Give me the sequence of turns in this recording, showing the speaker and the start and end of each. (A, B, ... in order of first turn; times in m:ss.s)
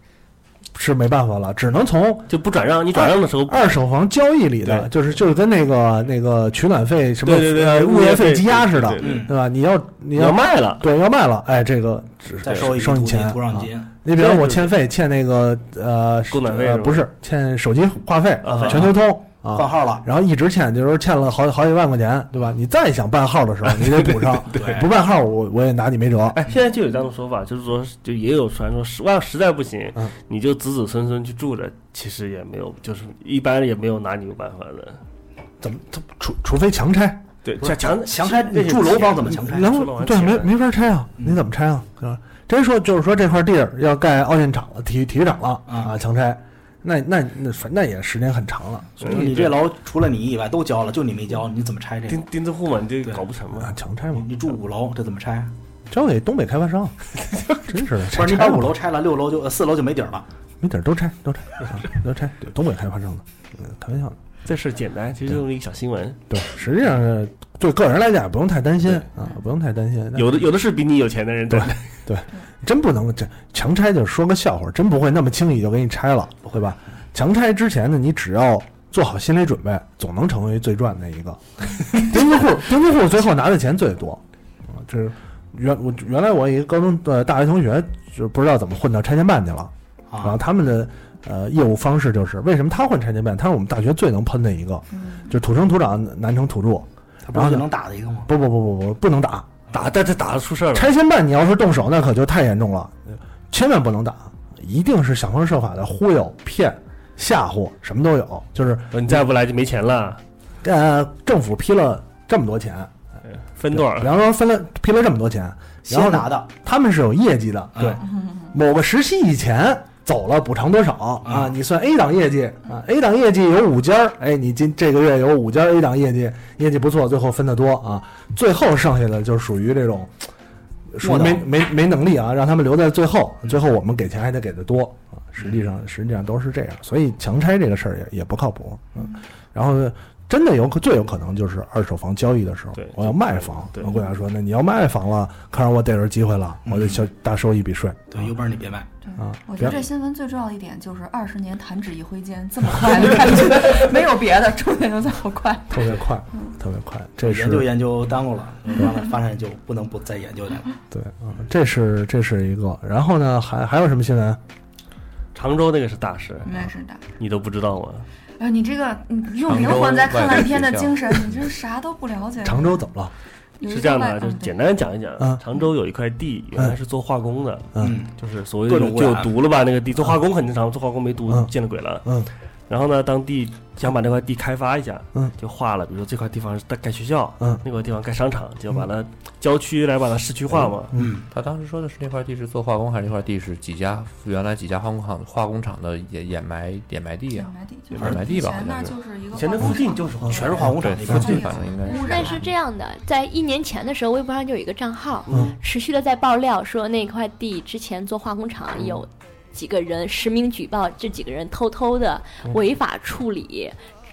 0:00.7-0:02.3 A
0:02.3-0:03.8 B
0:02.9-0:26.4 A
0:07.2-0:09.3 B
0:09.0-0:09.3 C
0:10.1-0:10.8 B
0:12.4-0:14.0 C
0:14.1-0:14.7 B
0:16.3-0:17.1 B
0:18.4-0:19.0 B
0:18.5-0:20.1 C
0:24.5-0:24.9 C
0:26.4-0:35.0 B
0:35.6-0:37.2 A
0:37.4-0:40.6 B
0:37.6-0:39.8 C
0:39.3-0:49.3 A
0:45.7-0:46.0 C
0:49.0-0:49.6 B
0:49.0-0:52.3 C
0:52.1-0:53.8 B
0:53.6-0:54.3 A
0:54.1-0:55.5 C
0:55.9-0:56.9 A
0:57.7-0:58.8 A
0:58.1-1:00.3 C
1:00.6-1:04.2 A
1:04.4-1:06.2 B
1:06.3-1:10.4 A
1:10.1-1:11.9 B
1:11.5-1:37.6 A
1:30.1-1:30.4 C
1:37.2-1:38.3 C
1:38.3-1:39.6 A
1:39.7-1:40.9 B
1:40.7-1:49.2 A
1:48.9-1:50.2 B
1:50.6-1:52.9 A
1:53.6-1:54.1 B
1:53.7-2:10.1 A
1:55.9-1:56.5 C
1:57.8-1:58.0 C
2:01.2-2:01.5 C
2:10.9-2:28.2 A
2:11.0-2:11.4 C
2:22.8-2:23.9 B
2:26.6-2:27.0 C
2:28.1-2:28.9 C
2:29.0-2:35.9 D
2:29.2-2:29.8 A
2:35.7-2:37.7 A
2:37.2-2:40.7 C
2:40.9-2:44.4 A
2:45.4-2:48.1 B
2:46.4-2:47.0 D
2:48.4-2:52.8 D
2:49.4-2:51.4 E
2:52.4-2:53.1 A
2:53.6-2:54.5 D
2:53.6-3:10.9 B
2:57.8-2:59.4 C
3:02.0-3:02.3 A
3:11.0-3:11.2 C
3:11.3-3:19.0 E
3:17.3-3:22.5 D
3:18.0-3:18.2 C
3:19.3-3:20.8 B
3:20.2-3:21.5 C
3:20.6-3:22.4 E
3:21.8-3:33.7 F
3:25.2-3:25.5 B